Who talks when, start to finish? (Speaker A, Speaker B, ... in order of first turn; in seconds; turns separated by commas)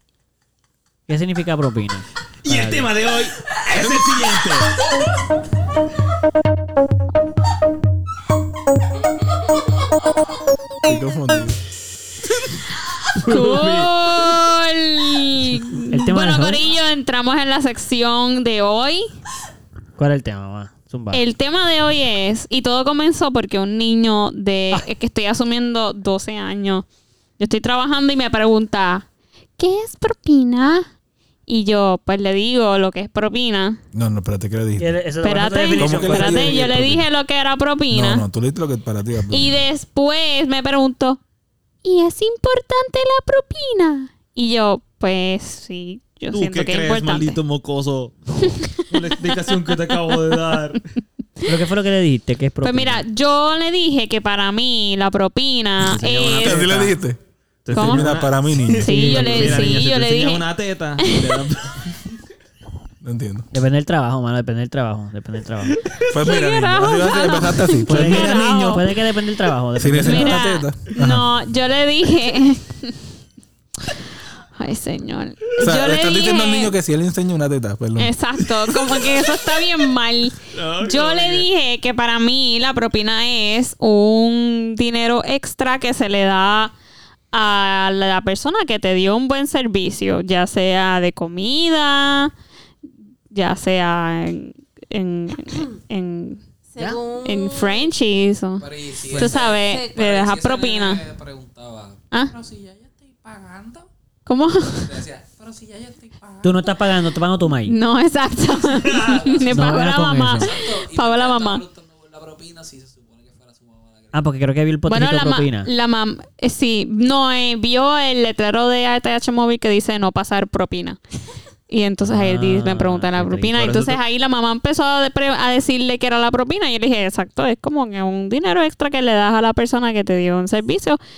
Speaker A: 1.1-2.9, Speaker B: 2.4-4.8, Speaker C: 10.8-11.6, Speaker B: 13.2-13.9, Speaker D: 13.2-19.1, Speaker A: 15.9-16.6, Speaker A: 20.0-21.2, Speaker D: 21.1-26.9, Speaker D: 27.4-29.1, Speaker D: 29.6-30.9, Speaker D: 31.5-33.8, Speaker C: 33.9-34.9, Speaker A: 34.8-36.7, Speaker D: 35.2-38.2, Speaker C: 35.8-37.1, Speaker C: 37.9-39.6, Speaker D: 39.3-41.2, Speaker D: 41.8-47.4, Speaker B: 46.3-50.8, Speaker D: 48.4-48.9, Speaker A: 51.5-53.0, Speaker D: 52.6-56.9, Speaker B: 55.8-57.0, Speaker C: 56.3-57.2, Speaker B: 57.7-62.1, Speaker D: 57.7-58.3, Speaker C: 57.7-59.7, Speaker D: 58.8-60.5, Speaker A: 58.9-59.7, Speaker D: 61.0-61.4, Speaker C: 63.0-63.5, Speaker A: 63.5-65.8, Speaker B: 65.7-66.1, Speaker C: 66.1-68.8, Speaker D: 66.2-68.9, Speaker A: 67.9-70.5, Speaker C: 69.8-71.3, Speaker D: 70.0-73.0, Speaker D: 74.6-76.7, Speaker C: 75.6-78.1, Speaker D: 78.0-86.7, Speaker B: 78.4-79.2, Speaker B: 80.5-81.5, Speaker D: 87.3-92.3, Speaker D: 93.3-96.4, Speaker E: 96.7-97.9, Speaker D: 97.2-101.0, Speaker F: 98.6-103.9, Speaker E: 99.2-100.2, Speaker D: 104.3-104.9, Speaker F: 104.7-106.9, Speaker A: 106.4-107.8, Speaker D: 107.6-111.6, Speaker F: 108.6-114.3, Speaker A: 109.5-110.5, Speaker A: 114.1-115.7, Speaker D: 114.9-121.0, Speaker D: 121.7-131.0, Speaker A: 122.0-123.6, Speaker B: 123.5-124.0